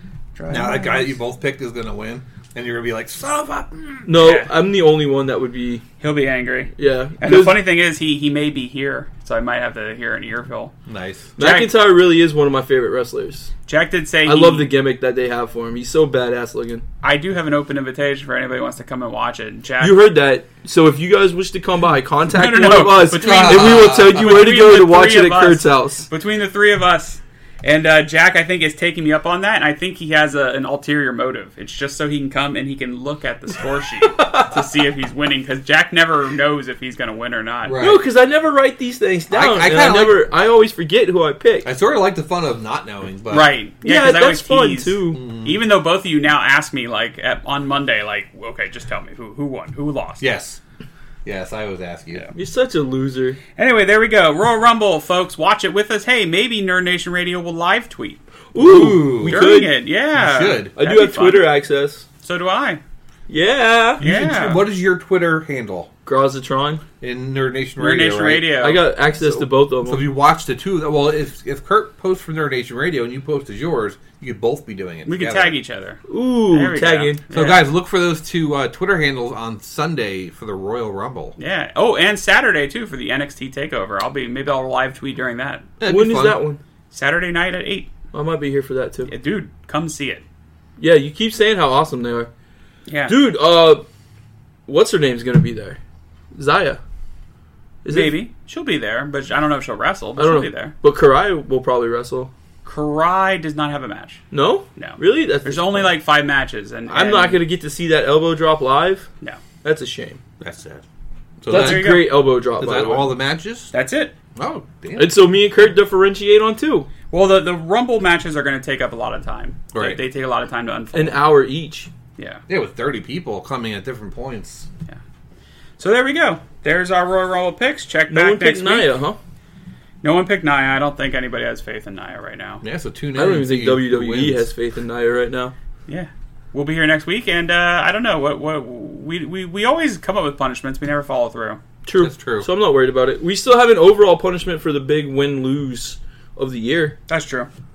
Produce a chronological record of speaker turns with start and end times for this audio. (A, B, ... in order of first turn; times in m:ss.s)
0:00.4-0:01.1 A
0:00.5-0:04.1 B
0:04.0-0:05.8 C
0:04.2-0:04.5 A
0:06.0-0:10.7 A
0:06.8-0:07.6 C
0:10.9-0:11.3 B
0:11.4-0:13.5 C
0:11.4-0:11.7 A
0:13.7-0:14.7 A
0:14.2-0:16.8 C
0:17.0-0:20.1 A
0:19.8-0:26.1 C
0:22.3-0:37.8 A
0:23.2-0:24.5 B
0:34.2-0:34.5 C
0:37.6-0:38.0 B
0:37.8-0:41.7 C
0:39.3-0:40.3 B
0:41.6-0:43.6 B
0:43.3-0:50.2 A
0:43.8-0:45.2 C
0:45.1-0:45.6 B
0:50.2-0:50.6 B
0:51.2-0:52.3 B
0:52.3-0:53.4 C
0:53.6-0:58.2 A
0:58.5-0:59.7 C
0:58.6-0:59.5 B
0:58.8-1:01.5 A
1:00.1-1:00.7 B
1:00.8-1:02.0 C
1:02.2-1:02.8 A
1:03.3-1:04.0 C
1:04.0-1:04.6 A
1:04.0-1:05.9 B
1:06.1-1:06.8 C
1:07.0-1:08.5 B
1:07.8-1:08.9 A
1:08.6-1:10.0 C
1:09.2-1:15.6 B
1:15.1-1:17.6 A
1:16.1-1:17.2 C
1:17.3-1:21.4 B
1:21.4-1:25.7 A
1:25.8-1:26.4 B
1:25.8-1:26.6 C
1:26.9-1:27.9 A
1:28.1-1:29.1 C
1:29.1-1:30.2 A
1:30.8-1:32.3 C
1:32.9-1:33.2 A
1:33.1-1:33.8 C
1:34.7-1:35.8 C
1:36.3-1:36.8 C
1:37.8-1:38.2 C
1:37.9-1:40.7 A
1:40.2-1:42.3 C
1:42.6-1:44.2 A
1:44.3-1:45.9 C
1:44.8-1:47.4 A
1:46.9-1:49.1 C
1:49.6-1:50.2 C
1:50.4-1:50.8 B
1:51.4-1:52.0 B
1:51.5-1:53.1 C
1:51.5-1:52.2 A
1:52.6-1:53.7 B
1:53.7-1:54.1 A
1:54.4-1:55.2 B
1:55.0-1:56.9 C
1:57.1-2:01.3 A
1:59.7-2:00.0 B
2:00.9-2:01.9 C
2:02.2-2:02.4 A
2:02.5-2:04.7 B
2:05.8-2:08.9 A
2:08.1-2:09.2 C
2:10.0-2:12.6 A
2:12.6-2:14.5 B
2:13.2-2:15.6 C
2:15.9-2:21.6 A
2:21.8-2:27.0 C
2:22.0-2:22.5 B
2:27.1-2:27.5 A